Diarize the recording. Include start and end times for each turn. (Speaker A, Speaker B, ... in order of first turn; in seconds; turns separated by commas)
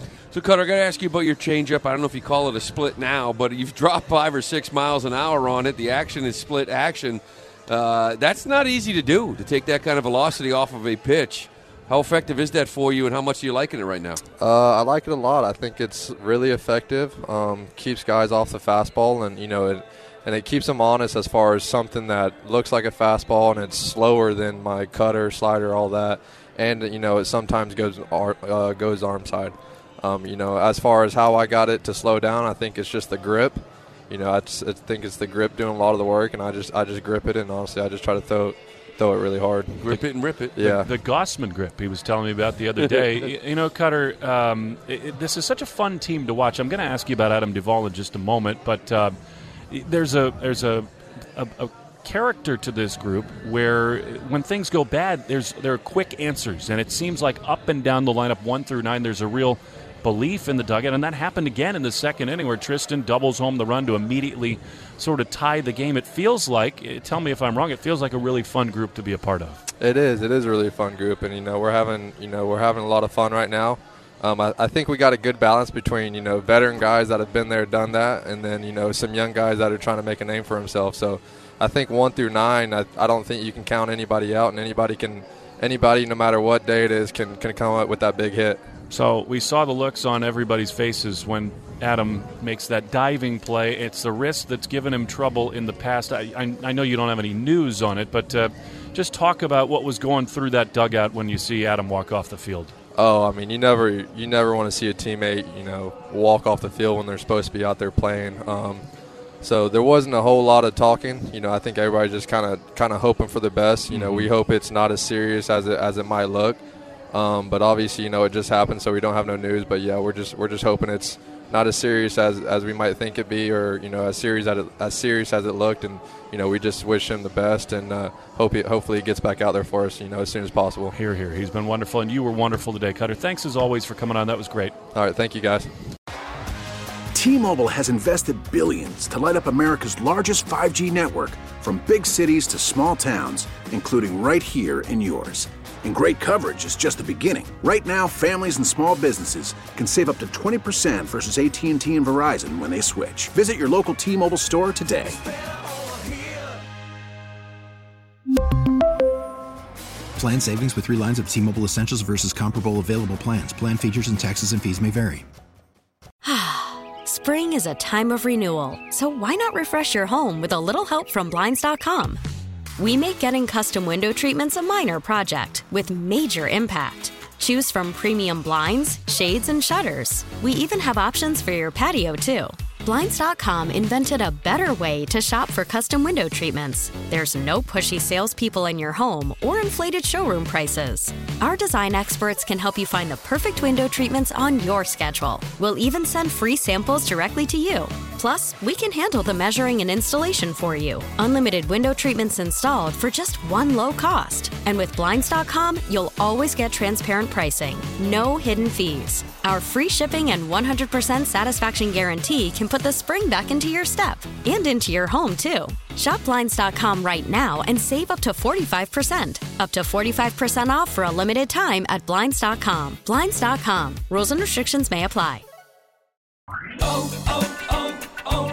Speaker A: 0.3-14.2, Speaker B: 14.4-39.9, Speaker A: 39.9-40.7, Speaker B: 40.5-40.9, Speaker C: 40.6-49.1, Speaker C: 49.7-69.6, Speaker B: 69.8-88.6, Speaker C: 88.9-102.7, Speaker B: 103.0-108.8, Speaker B: 109.4-116.6, Speaker C: 113.9-114.3, Speaker B: 117.1-130.9, Speaker C: 130.9-134.7, Speaker B: 134.9-135.7, Speaker D: 137.1-155.2, Speaker E: 160.2-165.2, Speaker F: 166.2-172.2, Speaker F: 172.8-225.4